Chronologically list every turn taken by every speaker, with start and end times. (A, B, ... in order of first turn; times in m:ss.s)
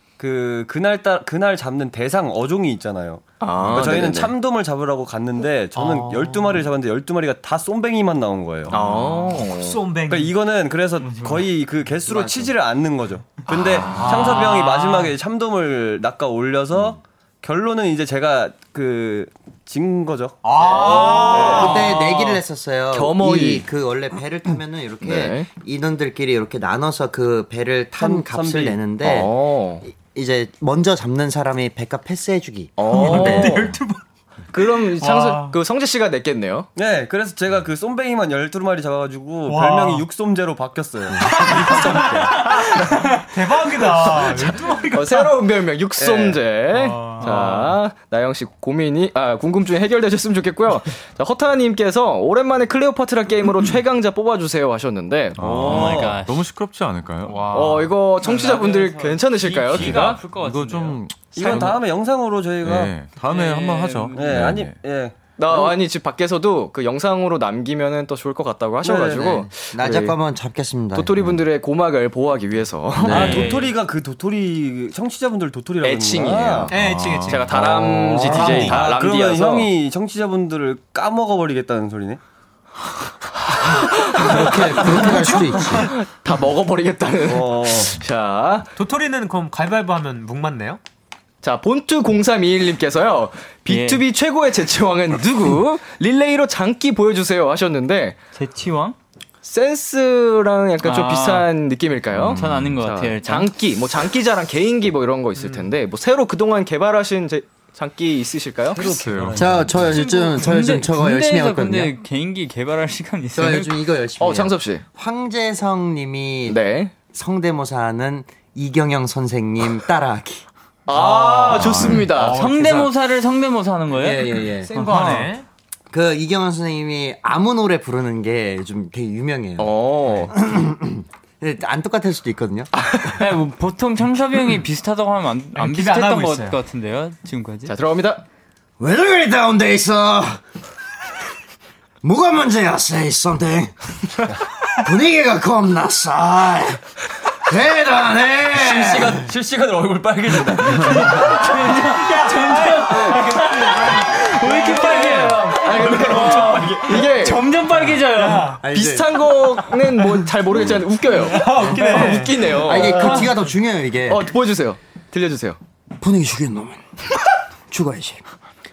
0:00.2-0:08.7 A
0:03.4-0:04.3 B
0:03.6-0:04.0 C
0:05.7-0:06.6 D
0:08.7-0:09.8 B
0:08.7-0:09.3 C
0:09.5-0:10.3 D
0:10.1-0:21.7 A
0:12.1-0:12.5 E
0:13.6-0:14.1 C
0:13.9-0:15.1 D
0:20.4-0:21.9 D
0:20.6-0:22.4 B
0:20.8-0:29.3 E
0:22.9-0:23.6 B
0:25.0-0:25.5 B
0:28.0-0:28.8 A
0:29.0-0:29.8 B
0:29.8-0:33.7 E
0:32.8-0:33.7 B
0:32.8-0:34.0 D
0:34.5-0:36.7 B
0:34.6-0:35.6 D
0:36.8-0:42.9 A
0:39.4-0:40.0 D
0:41.2-0:45.4 D
0:41.6-0:42.3 B
0:44.0-0:55.8 B
0:46.0-0:46.4 A
0:46.9-0:47.4 C
0:47.3-0:47.5 A
0:55.4-0:57.7 C
0:55.5-0:56.2 A
0:55.6-0:56.4 F
0:57.2-1:01.0 F
0:57.5-1:00.2 B
0:59.7-1:01.9 C
1:01.3-1:02.9 A
1:02.6-1:04.8 C
1:03.2-1:04.6 F
1:04.1-1:05.7 A
1:05.4-1:10.2 B
1:08.8-1:09.4 A
1:09.3-1:11.3 E
1:10.9-1:13.5 B
1:13.0-1:13.5 C
1:13.0-1:16.7 A
1:13.1-1:13.7 F
1:15.8-1:16.7 B
1:16.7-1:17.8 C
1:16.7-1:17.6 D
1:17.2-1:19.7 B
1:17.9-1:22.2 A
1:18.1-1:18.8 D
1:23.6-1:28.7 B
1:24.1-1:25.9 E
1:25.1-1:25.6 D
1:27.2-1:28.0 A
1:28.8-1:30.8 D
1:31.4-1:38.2 B
1:33.7-1:34.0 F
1:38.3-1:39.0 F
1:39.4-1:48.9 B
1:40.8-1:41.5 F
1:42.1-1:42.8 C
1:42.2-1:43.5 F
1:45.4-1:45.7 D
1:48.7-1:49.9 A
1:48.8-1:49.7 C
1:49.4-1:51.9 E
1:49.8-1:53.8 F
1:53.3-1:56.6 E
1:54.2-1:54.8 B
1:56.5-1:56.9 B
1:57.1-2:00.4 E
2:00.9-2:02.5 B
2:00.9-2:02.8 D
2:01.5-2:02.1 C
2:02.1-2:05.3 F
2:03.9-2:04.7 E
2:04.6-2:05.4 D
2:05.9-2:12.7 E
2:09.6-2:10.3 B
2:12.7-2:13.2 B
2:13.1-2:17.7 F
2:15.5-2:16.6 D
2:17.7-2:18.2 B
2:18.8-2:20.4 E
2:22.0-2:26.8 E
2:27.4-2:29.3 E
2:28.5-2:31.3 A
2:30.8-2:38.6 F
2:31.1-2:38.6 D
2:34.4-2:37.5 B
2:38.6-2:39.2 E
2:38.7-2:43.3 B
2:41.1-2:43.3 D
2:42.5-2:44.3 E
2:44.1-2:45.6 B
2:46.0-2:46.8 E
2:47.7-2:48.2 E